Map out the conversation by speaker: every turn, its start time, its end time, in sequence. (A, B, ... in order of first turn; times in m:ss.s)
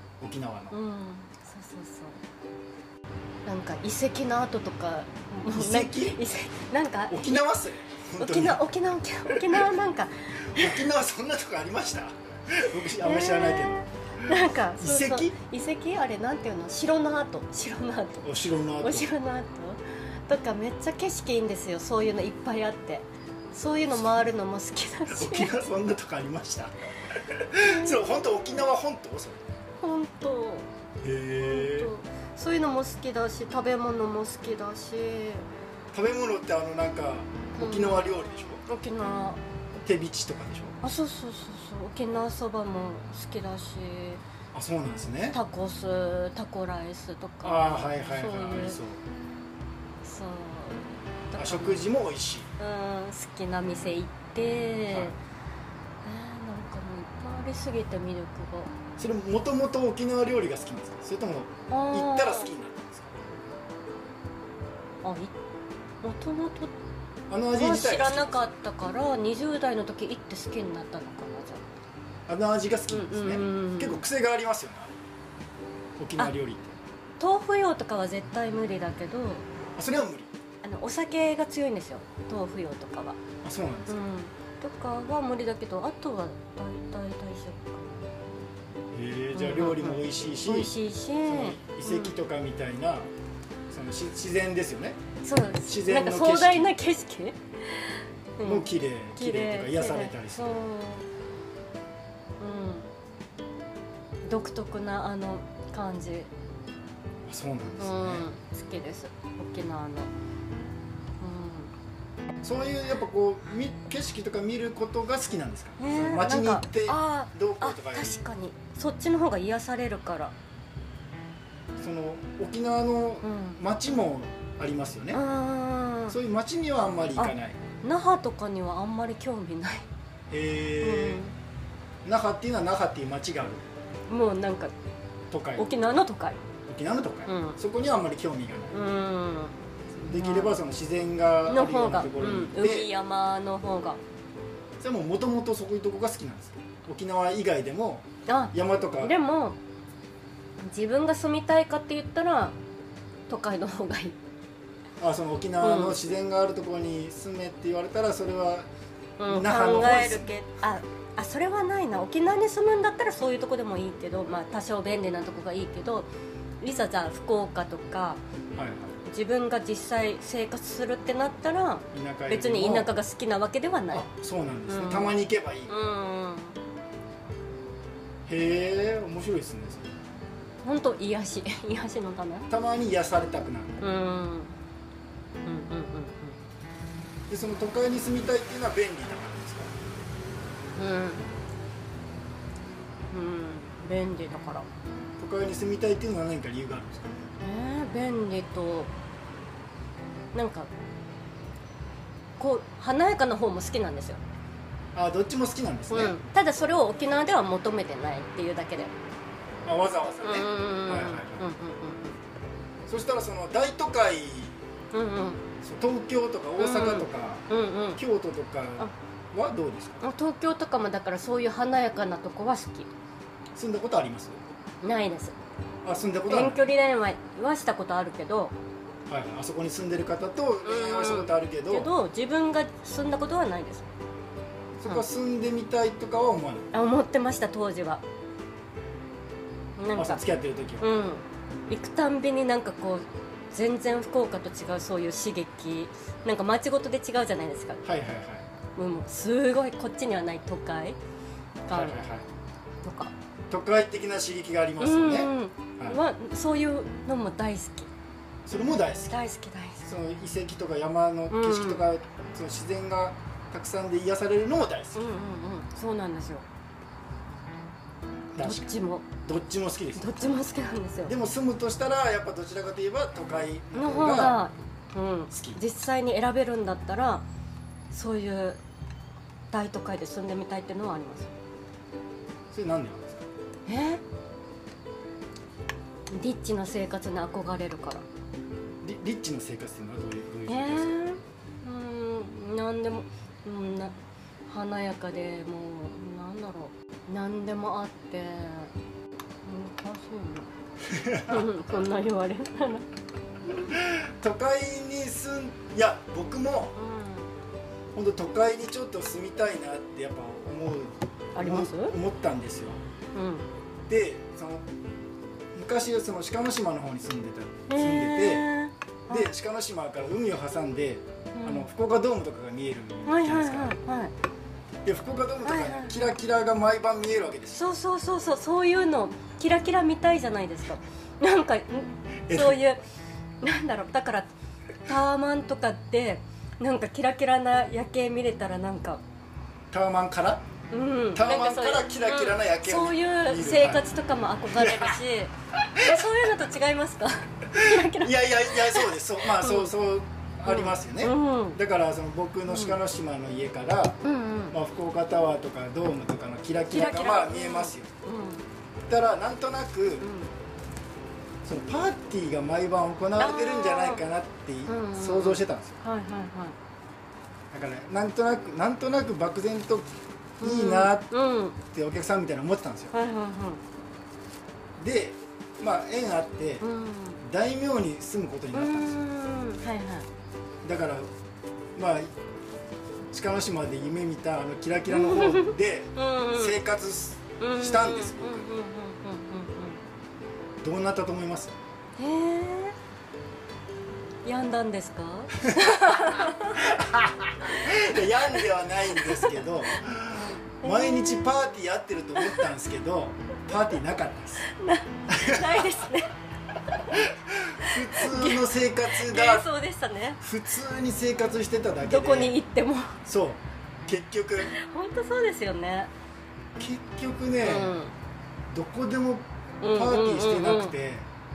0:00.2-0:00.8 A
0:00.7-0:02.2 B
0:03.4-0:07.4 B
0:05.5-0:06.2 A
0:07.1-0:08.6 A
0:08.2-0:10.9 B
0:09.3-0:09.7 A
0:10.4-0:15.4 A
0:13.0-0:25.6 B
0:18.2-0:19.1 A
0:23.9-0:24.2 A
0:25.1-0:29.4 A
0:27.6-0:28.3 B
0:29.8-0:30.7 B
0:31.0-0:31.9 A
0:31.4-0:35.5 B
0:35.9-0:38.6 A
0:37.6-0:39.4 B
0:39.8-0:40.8 A
0:40.8-0:44.2 B
0:44.5-0:45.4 A
0:45.3-0:48.8 B
0:47.4-0:49.0 A
0:50.0-0:51.8 B
0:51.4-0:52.5 A
0:52.6-0:55.2 B
0:54.9-0:55.2 A
0:56.0-0:58.7 B
0:59.0-1:03.4 A
1:01.7-1:02.5 B
1:05.0-1:05.3 B
1:06.0-1:06.7 B
1:07.3-1:08.5 A
1:07.5-1:11.7 B
1:12.3-1:15.0 A
1:12.9-1:14.0 B
1:16.0-1:16.8 A
1:17.2-1:19.4 B
1:19.8-1:20.3 A
1:20.6-1:23.2 B
1:23.4-1:24.0 A
1:23.9-1:28.0 B
1:28.9-1:33.1 A
1:29.3-1:32.1 B
1:33.7-1:35.0 A
1:35.2-1:41.1 B
1:35.6-1:36.8 A
1:38.4-1:40.5 A
1:42.4-1:42.9 B
1:44.3-1:46.3 B
1:47.3-1:48.3 A
1:47.8-1:50.1 B
1:51.2-1:51.7 B
1:52.4-1:58.2 A
1:55.8-2:00.3 B
2:01.8-2:05.2 A
2:03.2-2:03.6 B
2:05.1-2:06.2 B
2:06.1-2:07.6 A
2:07.2-2:09.9 B
2:10.3-2:11.2 A
2:10.8-2:11.3 B
2:12.0-2:13.6 A
2:14.1-2:14.7 B
2:15.3-2:15.7 A
2:15.6-2:16.4 B
2:16.7-2:18.8 A
2:17.3-2:17.6 B
2:18.7-2:19.6 B
2:20.0-2:22.9 A
2:20.1-2:20.6 B
2:21.5-2:24.0 B
2:24.8-2:29.1 A
2:28.3-2:29.6 B
2:30.6-2:32.6 B
2:33.3-2:34.2 B
2:35.0-2:38.7 A
2:35.6-2:36.0 B
2:39.2-2:46.1 B
2:39.3-2:40.3 A
2:46.6-2:48.2 B
2:48.6-2:49.0 A
2:49.1-2:54.1 B
2:51.9-2:52.9 A
2:53.9-2:55.7 A
2:54.7-2:55.2 B
2:55.7-2:56.6 B
2:58.3-3:00.0 A
3:00.6-3:02.5 B
3:02.5-3:03.9 A
3:03.8-3:04.5 B
3:05.4-3:06.4 B
3:07.3-3:09.7 A
3:10.8-3:11.3 B
3:13.1-3:14.7 B
3:15.2-3:17.3 A
3:17.4-3:18.9 B
3:20.3-3:20.7 B
3:22.4-3:24.2 B
3:24.9-3:26.2 A
3:25.9-3:28.9 B
3:29.7-3:31.5 A
3:30.2-3:32.2 B
3:32.9-3:34.6 A
3:34.9-3:35.4 B
3:35.6-3:37.4 A
3:36.6-3:38.0 B
3:38.0-3:40.0 A
3:40.0-3:42.9 B
3:43.5-3:44.4 A
3:44.8-3:45.4 B
3:45.8-3:46.6 A
3:46.2-3:48.5 B
3:49.1-3:51.9 A
3:50.6-3:53.9 B
3:54.8-3:56.7 A
3:56.7-3:58.0 B
3:59.8-4:00.2 B
4:00.0-4:00.9 A
4:00.8-4:07.8 B
4:07.8-4:08.5 A
4:08.8-4:11.0 B
4:11.7-4:12.1 B
4:11.7-4:12.3 A
4:12.8-4:13.1 B
4:13.5-4:16.0 A
4:14.8-4:17.9 B
4:18.5-4:19.2 A
4:19.1-4:19.8 B
4:19.8-4:25.0 A
4:21.3-4:21.9 B
4:25.0-4:26.5 B
4:28.3-4:30.4 A
4:28.4-4:29.1 B
4:30.0-4:31.1 B
4:31.0-4:34.4 A
4:33.7-4:37.2 B
4:35.3-4:35.6 A
4:37.9-4:38.6 B
4:39.5-4:41.3 B
4:42.5-4:43.2 A
4:43.6-4:44.0 B
4:46.1-4:48.1 B
4:48.8-4:51.0 A
4:50.5-4:53.9 B
4:54.5-4:58.7 B
4:59.4-5:00.5 B
5:00.8-5:01.8 A
5:01.2-5:02.9 B
5:03.6-5:06.8 A
5:06.8-5:07.3 B
5:07.9-5:12.8 A
5:11.4-5:12.0 B
5:13.1-5:13.5 B
5:13.9-5:14.6 A
5:15.5-5:18.5 A
5:17.7-5:19.3 B
5:19.1-5:23.8 A
5:21.3-5:21.7 B
5:23.0-5:24.1 B
5:24.8-5:27.7 A
5:25.4-5:26.1 B
5:27.5-5:32.8 B
5:32.3-5:32.6 A
5:33.4-5:34.3 B
5:34.8-5:39.0 B
5:39.7-5:40.4 A
5:40.7-5:49.7 B
5:41.1-5:43.9 A
5:44.5-5:45.0 A
5:45.8-5:46.1 A
5:47.5-5:54.0 A
5:50.5-5:51.6 B
5:52.5-5:52.8 B
5:54.0-5:54.6 B
5:54.5-5:57.9 A
5:56.7-5:58.4 B
5:58.9-6:00.1 A
6:00.0-6:00.3 B
6:01.4-6:05.8 A
6:03.2-6:04.0 B
6:04.7-6:06.6 B
6:07.5-6:11.1 A
6:10.4-6:11.6 B
6:11.7-6:13.0 A
6:12.9-6:13.6 B
6:14.8-6:16.6 A
6:16.6-6:17.2 B
6:17.2-6:19.0 A
6:18.5-6:20.1 B
6:20.6-6:21.1 A
6:21.8-6:22.1 A
6:23.1-6:28.5 A
6:24.9-6:26.6 B
6:27.4-6:29.8 B
6:30.6-6:31.6 A
6:32.0-6:32.8 B
6:34.2-6:36.8 B
6:35.4-6:44.5 A
6:37.5-6:41.3 B
6:42.2-6:42.5 B
6:44.4-6:46.1 B
6:45.1-6:45.9 A
6:46.7-6:46.9 B
6:46.9-6:49.5 A
6:47.6-6:50.2 B
6:50.2-6:52.4 A
6:51.8-6:53.0 B
6:53.1-6:54.5 A
6:54.4-6:55.9 B
6:56.6-6:57.8 A
6:57.4-6:57.9 B
6:58.5-7:01.1 A
6:59.6-7:00.8 B